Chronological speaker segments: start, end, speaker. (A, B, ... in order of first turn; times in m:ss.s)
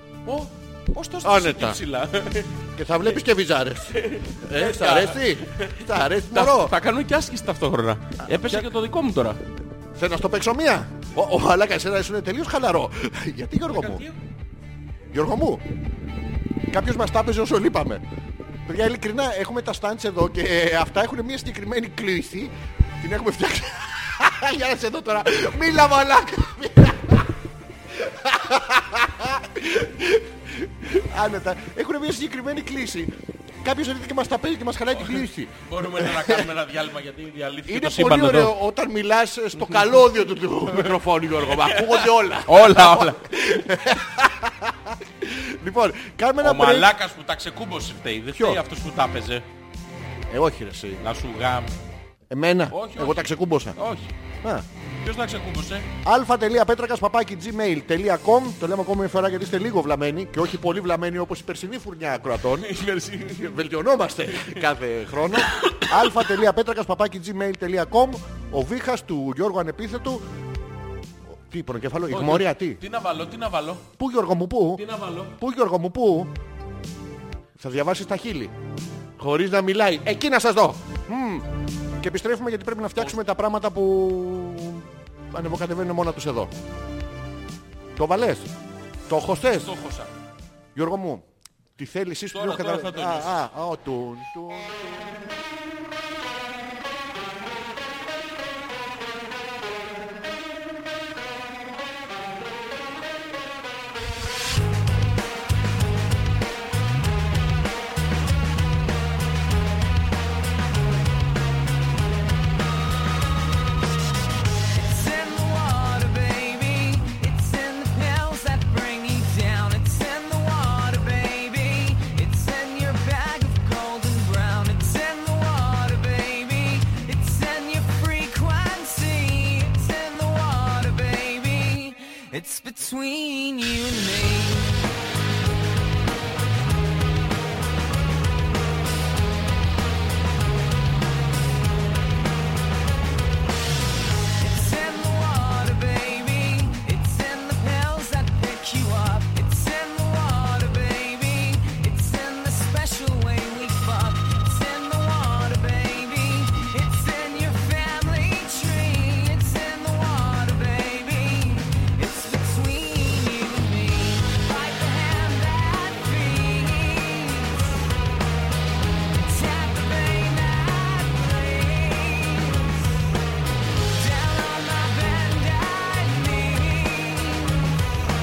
0:00.2-0:03.2 A
0:01.2-0:01.8 B
0:02.8-0:06.8 B
0:03.9-0:09.4 A
0:08.3-0:08.7 B
0:09.9-0:14.1 B
0:13.7-0:14.2 A
0:15.1-0:15.6 B
0:16.7-0:18.0 B
0:18.7-0:27.3 B
0:27.9-0:36.5 B
0:35.0-0:38.6 A
0:37.7-0:46.9 B
0:39.6-0:40.0 A
0:40.7-0:43.3 A
0:46.4-0:49.4 A
0:48.3-0:48.6 B
0:50.3-0:51.0 B
0:51.0-0:51.7 A
0:52.3-0:53.8 B
0:52.7-0:54.2 A
0:55.0-0:55.9 A
0:56.0-1:02.7 B
1:02.6-1:03.6 A
1:03.3-1:10.2 B
1:04.3-1:04.6 A
1:05.3-1:06.2 A
1:11.4-1:12.8 B
1:12.1-1:13.9 A
1:14.0-1:14.8 B
1:14.8-1:15.4 A
1:15.4-1:16.3 B
1:17.6-1:18.5 B
1:19.2-1:26.5 B
1:28.0-1:28.5 B
1:29.1-1:29.7 B
1:29.5-1:30.1 A
1:30.8-1:31.3 B
1:31.8-1:35.2 B
1:32.3-1:33.3 A
1:54.7-2:14.8 C
2:24.4-2:47.9 C
2:49.1-2:53.2 C
2:53.9-2:57.9 C